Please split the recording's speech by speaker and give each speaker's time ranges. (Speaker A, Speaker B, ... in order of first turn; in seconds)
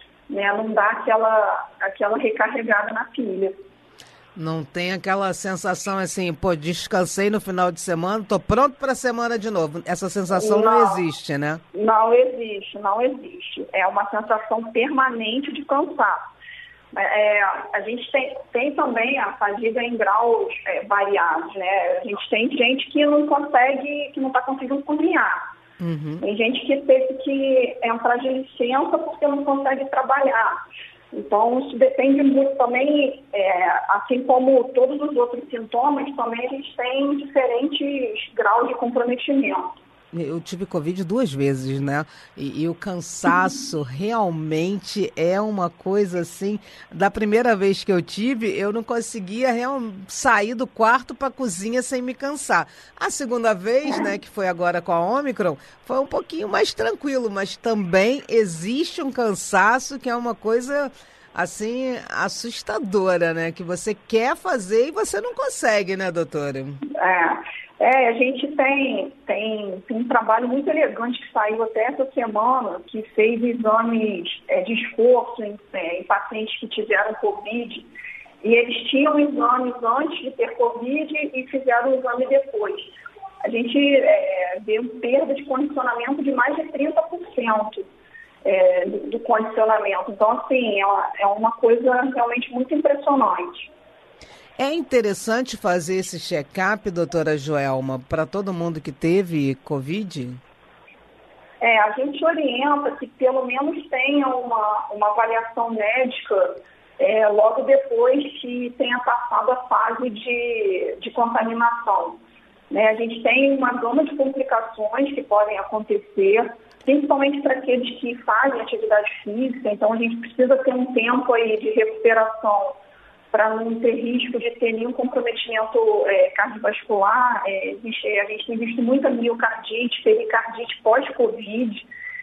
Speaker A: 0.3-3.6, 10.3-11.0, 11.7-16.2, 16.9-25.4, 26.2-30.6, 31.1-39.8, 66.9-77.9, 78.4-82.9, 83.5-87.9, 88.4-93.7, 101.6-112.2, 112.7-122.8, 123.3-131.9
Speaker B: 4.3-11.6, 25.8-26.2, 40.1-66.8, 94.6-100.4